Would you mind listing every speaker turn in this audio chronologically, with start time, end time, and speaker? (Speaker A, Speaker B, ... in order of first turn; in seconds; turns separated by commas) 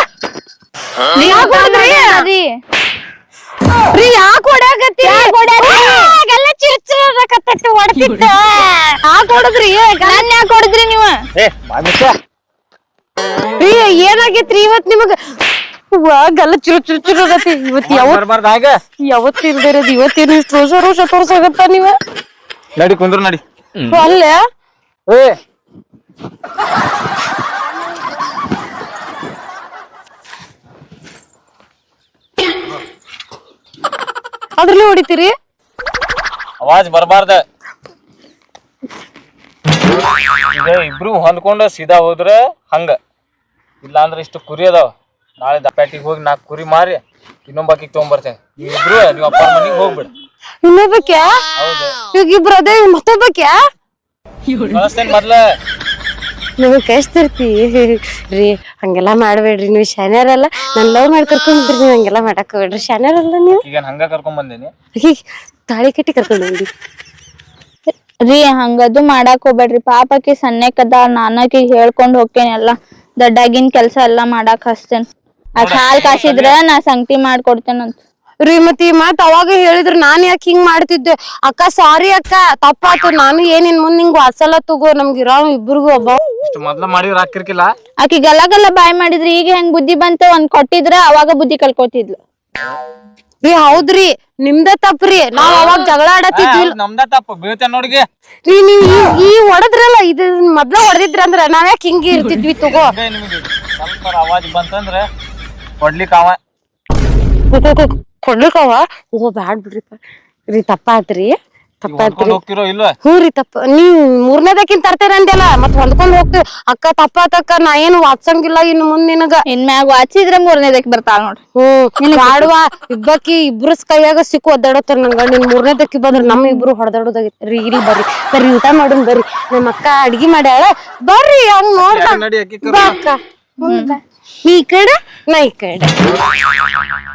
Speaker A: 1.1-2.3, Speaker B: 1.1-2.5, Speaker A: 3.9-10.2, Speaker B: 5.0-6.1, Speaker B: 10.0-11.2, Speaker C: 11.3-12.2, Speaker A: 13.6-15.2, Speaker A: 15.9-18.2, Speaker C: 17.8-18.8, Speaker A: 19.0-21.9, Speaker C: 22.8-24.0, Speaker A: 23.9-24.4, Speaker C: 25.1-25.4, Speaker A: 34.6-35.3, Speaker C: 36.6-37.4, Speaker C: 40.5-43.0, Speaker C: 43.8-50.1, Speaker A: 50.6-51.3, Speaker C: 51.6-52.0, Speaker A: 52.1-53.5, Speaker C: 54.7-55.4, Speaker A: 56.6-63.6, Speaker C: 63.6-64.7, Speaker A: 65.0-66.7, Speaker B: 68.3-78.0, Speaker C: 75.6-76.5, Speaker A: 78.4-86.2, Speaker C: 86.4-87.7, Speaker B: 88.0-92.2, Speaker A: 93.4-96.8, Speaker C: 95.4-95.8, Speaker C: 96.3-98.1, Speaker A: 98.5-103.0, Speaker C: 102.7-105.1, Speaker C: 105.8-106.4, Speaker A: 107.5-112.4, Speaker C: 111.9-113.0, Speaker A: 113.0-119.4, Speaker B: 119.5-121.4, Speaker A: 121.5-135.9, Speaker B: 122.0-122.5, Speaker B: 126.2-126.7, Speaker C: 131.8-133.0, Speaker B: 133.7-133.9